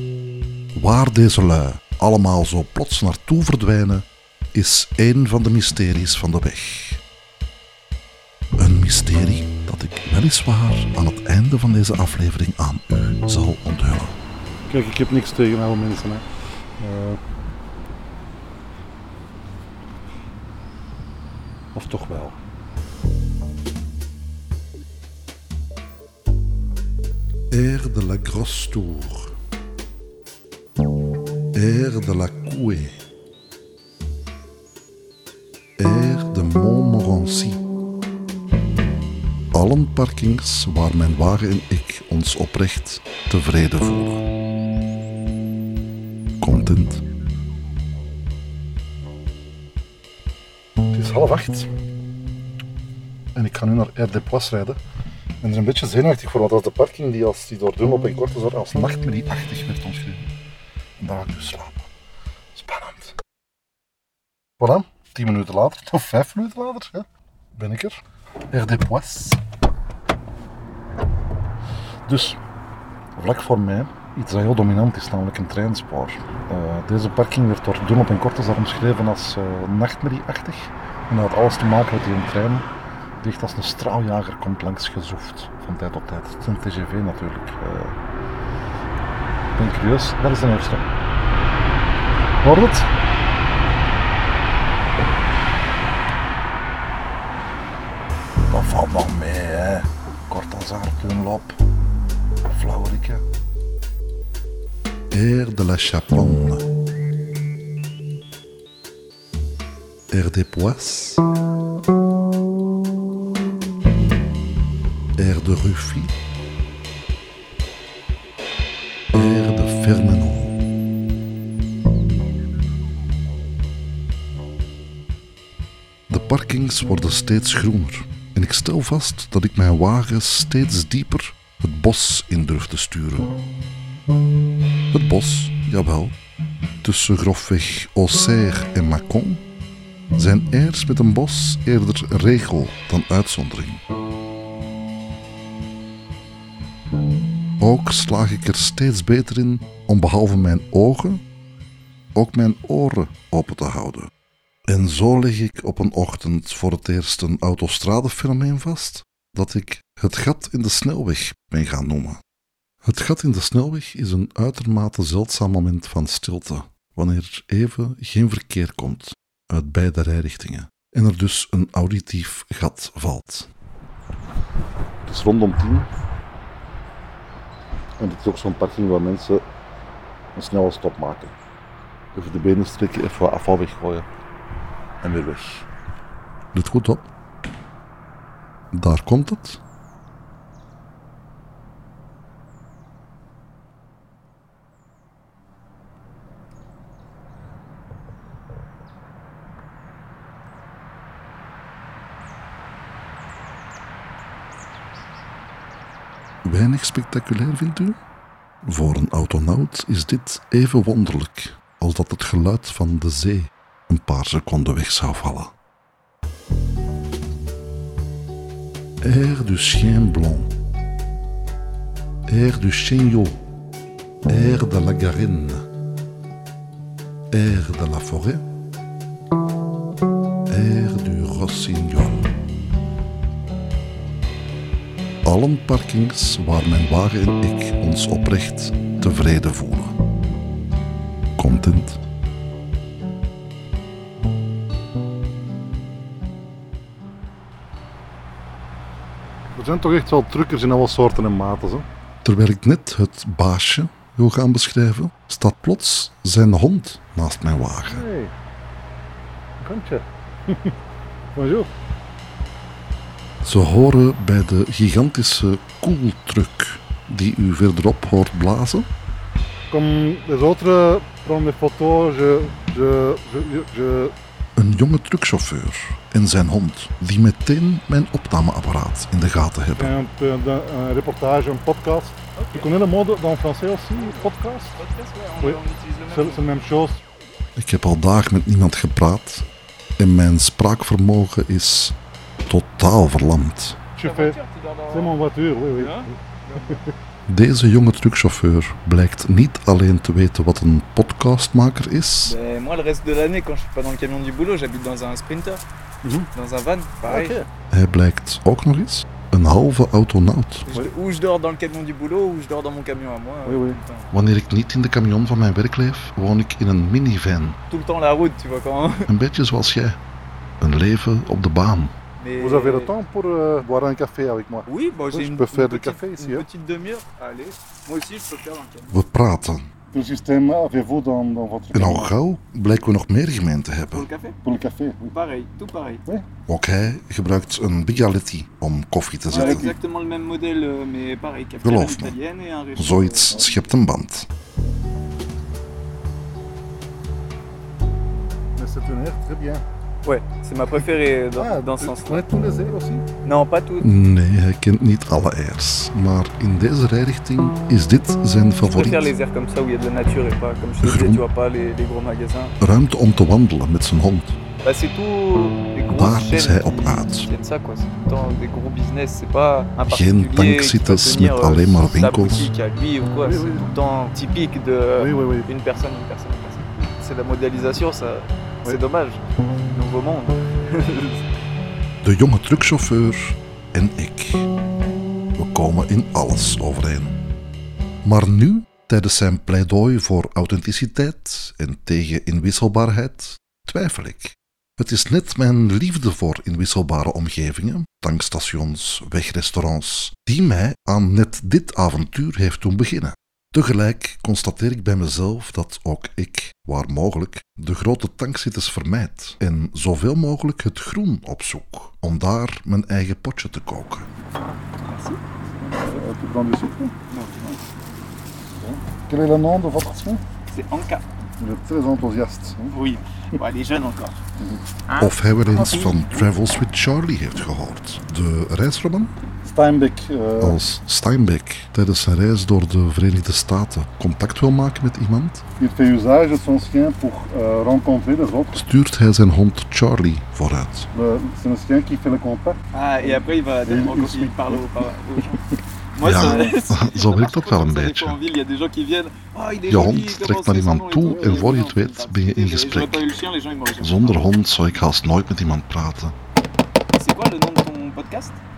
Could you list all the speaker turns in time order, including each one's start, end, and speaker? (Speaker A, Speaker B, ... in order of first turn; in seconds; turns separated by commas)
Speaker A: 0.8-7.0, Speaker A: 8.6-14.2, Speaker B: 14.7-16.2, Speaker B: 16.8-17.2, Speaker B: 21.8-22.4, Speaker A: 27.5-29.3, Speaker A: 31.5-33.0, Speaker A: 35.8-37.6, Speaker A: 39.5-44.2, Speaker A: 46.4-47.0, Speaker A: 50.9-51.7, Speaker A: 53.4-54.8, Speaker A: 55.4-60.3, Speaker A: 61.0-61.9, Speaker A: 62.5-63.1, Speaker A: 64.6-68.0, Speaker A: 68.5-69.4, Speaker A: 72.1-72.4, Speaker A: 73.2-82.7, Speaker A: 83.2-88.0, Speaker A: 89.6-90.8, Speaker A: 92.4-92.9, Speaker A: 98.5-101.5, Speaker A: 102.5-103.2, Speaker A: 105.1-106.6, Speaker A: 110.1-111.2, Speaker A: 115.2-116.1, Speaker A: 119.1-120.6, Speaker A: 126.1-133.3, Speaker A: 134.9-136.2, Speaker A: 136.8-139.4, Speaker A: 140.2-143.8, Speaker A: 147.6-151.2, Speaker A: 152.2-154.1, Speaker A: 154.7-162.2, Speaker A: 162.8-173.5, Speaker A: 175.1-175.9, Speaker A: 178.0-179.3, Speaker A: 180.4-181.3, Speaker A: 182.2-184.1, Speaker A: 185.0-185.7, Speaker A: 186.5-187.1, Speaker A: 188.7-189.6, Speaker A: 206.4-208.0, Speaker A: 208.6-215.5, Speaker A: 219.0-220.5, Speaker A: 222.3-223.4, Speaker A: 224.3-225.6, Speaker A: 227.3-228.4, Speaker A: 230.5-232.3, Speaker A: 235.2-239.9, Speaker A: 241.4-242.0, Speaker B: 249.6-251.9, Speaker A: 252.2-258.0, Speaker B: 257.9-258.3, Speaker B: 259.6-260.7, Speaker B: 261.4-261.7, Speaker A: 263.4-268.9, Speaker B: 269.7-274.1, Speaker A: 274.6-279.9, Speaker B: 279.8-284.8, Speaker C: 282.4-282.8, Speaker C: 283.9-286.5, Speaker B: 285.4-287.0, Speaker A: 287.6-289.4, Speaker A: 290.0-292.0, Speaker A: 292.5-293.8, Speaker B: 294.0-294.4, Speaker C: 294.0-295.2, Speaker B: 294.9-296.1, Speaker C: 295.7-296.8, Speaker A: 297.3-302.4, Speaker C: 302.3-305.6, Speaker C: 306.3-307.4, Speaker B: 307.1-307.4, Speaker A: 307.7-310.7, Speaker C: 310.7-314.1, Speaker B: 313.5-313.8, Speaker A: 314.1-317.6, Speaker C: 317.7-319.1, Speaker A: 319.1-320.0, Speaker A: 320.6-321.9, Speaker C: 322.2-322.9, Speaker B: 322.4-326.5, Speaker C: 324.7-328.9, Speaker A: 328.9-329.7, Speaker B: 329.9-332.1, Speaker A: 331.7-334.1, Speaker C: 333.9-334.4, Speaker B: 334.4-335.1, Speaker C: 335.1-336.0, Speaker A: 336.5-339.7, Speaker C: 339.3-343.4, Speaker A: 341.6-342.2, Speaker A: 342.8-344.3, Speaker B: 348.6-349.6, Speaker C: 350.0-352.3, Speaker B: 351.4-353.1, Speaker C: 353.2-353.9, Speaker A: 353.8-359.1, Speaker C: 358.6-362.6, Speaker A: 360.8-361.2, Speaker A: 362.6-364.4, Speaker C: 364.6-379.2, Speaker A: 365.9-367.3, Speaker A: 369.9-372.5, Speaker B: 373.2-373.7, Speaker B: 375.0-375.5, Speaker C: 379.7-381.2, Speaker A: 382.0-384.5, Speaker A: 385.4-387.2, Speaker A: 388.1-414.1, Speaker C: 414.8-415.2, Speaker B: 415.6-416.9, Speaker C: 417.1-417.6, Speaker B: 418.6-420.2, Speaker C: 420.5-421.0, Speaker B: 421.4-422.7, Speaker C: 422.7-424.2, Speaker C: 424.9-426.1, Speaker A: 425.0-429.1, Speaker B: 429.4-430.6, Speaker A: 430.4-435.4, Speaker B: 435.6-438.6, Speaker A: 438.5-440.9, Speaker B: 440.9-444.6, Speaker C: 442.7-445.4, Speaker C: 445.9-454.3, Speaker B: 446.0-446.6, Speaker A: 446.0-448.2, Speaker A: 449.7-453.1, Speaker B: 451.1-451.5, Speaker A: 453.8-456.2, Speaker C: 456.9-458.4